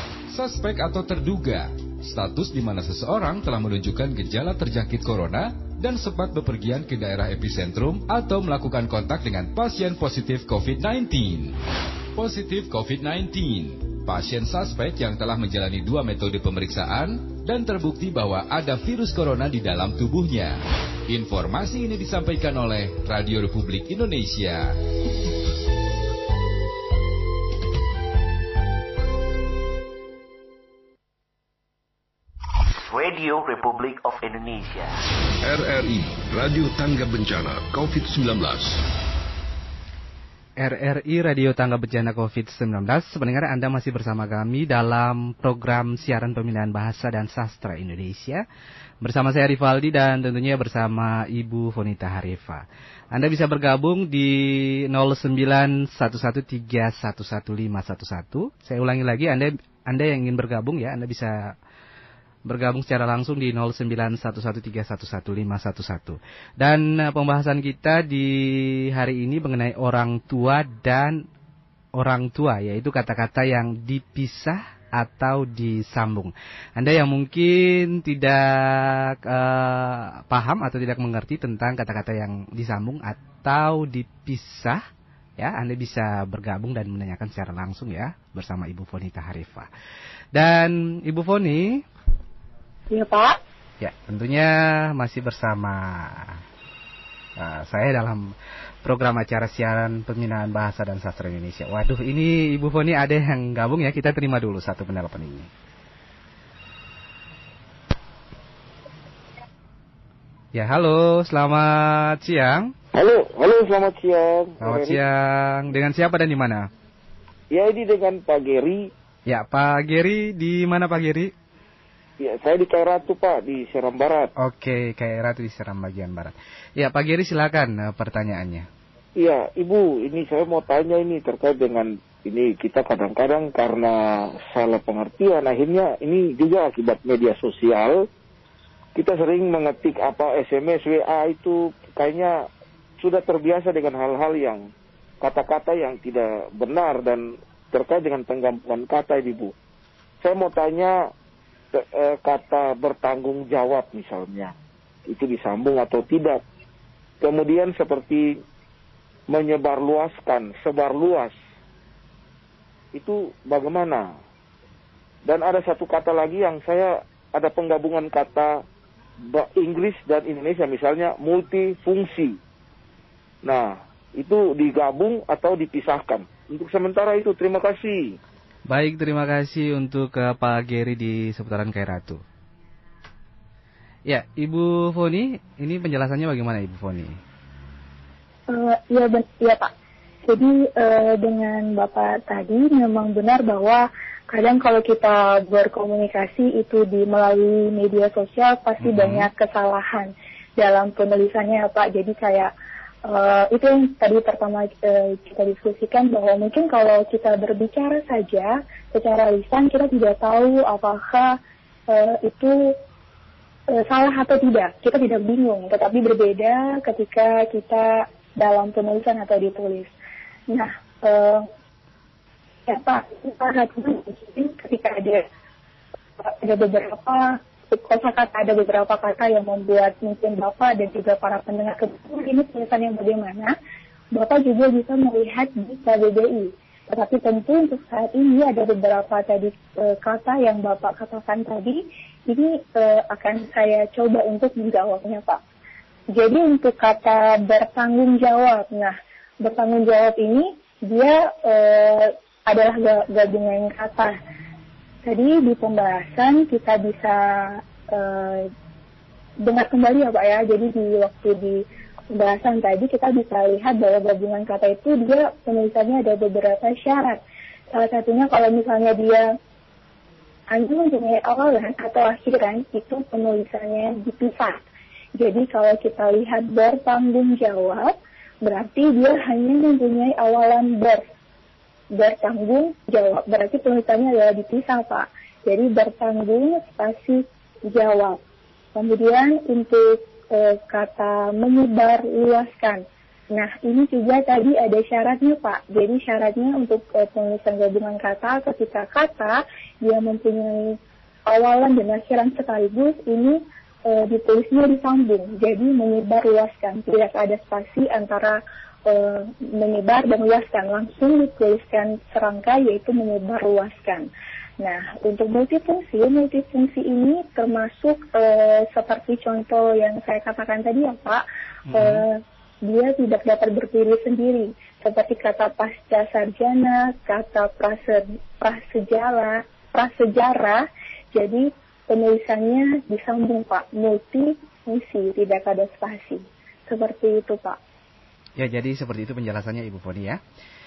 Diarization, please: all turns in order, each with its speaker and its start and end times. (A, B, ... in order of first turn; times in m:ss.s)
0:00.3-0:11.6 A
0:12.2-0:24.8 A
0:32.9-0:35.0 B
0:35.4-0:38.8 C
0:40.6-0:48.4 D
0:49.0-1:01.6 D
1:02.5-1:11.2 D
1:12.0-1:24.8 D
1:25.4-1:29.7 D
1:30.3-1:31.8 D
1:32.9-1:33.4 E
1:33.8-1:36.4 D
1:37.4-1:38.3 D
1:38.8-1:45.5 D
1:50.5-1:52.7 D
1:52.9-1:55.0 F
1:54.6-1:56.7 D
1:57.5-1:58.9 F
1:59.3-2:01.3 D
2:02.2-2:04.3 F
2:04.4-2:08.7 D
2:09.2-2:18.0 F
2:19.0-2:22.5 F
2:23.0-2:24.7 F
2:25.2-2:29.5 F
2:30.2-2:31.1 F
2:31.7-2:34.5 F
2:35.1-2:36.4 F
2:37.2-2:38.3 F
2:39.3-2:41.3 F
2:42.9-2:44.2 F
2:45.2-2:48.6 F
2:49.3-2:52.4 F
2:53.4-2:58.2 F
2:58.7-3:02.2 D
3:04.1-3:07.2 D
3:08.5-3:09.7 E
3:10.3-3:22.5 E
3:18.8-3:19.3 D
3:23.0-3:31.3 E
3:31.9-3:32.5 E
3:33.7-3:39.9 E
3:40.5-3:41.5 E
3:42.7-3:45.2 E
3:46.2-3:53.5 E
3:54.1-4:05.4 E
4:06.1-4:14.1 E
4:15.0-4:18.5 E
4:19.4-4:21.6 E
4:22.1-4:27.2 E
4:27.7-4:29.3 E
4:30.5-4:34.6 E
4:35.2-4:41.0 E
4:42.0-4:48.2 E
4:48.8-5:14.1 E
5:14.6-5:37.6 E
5:21.7-5:22.1 D
5:38.4-5:40.2 D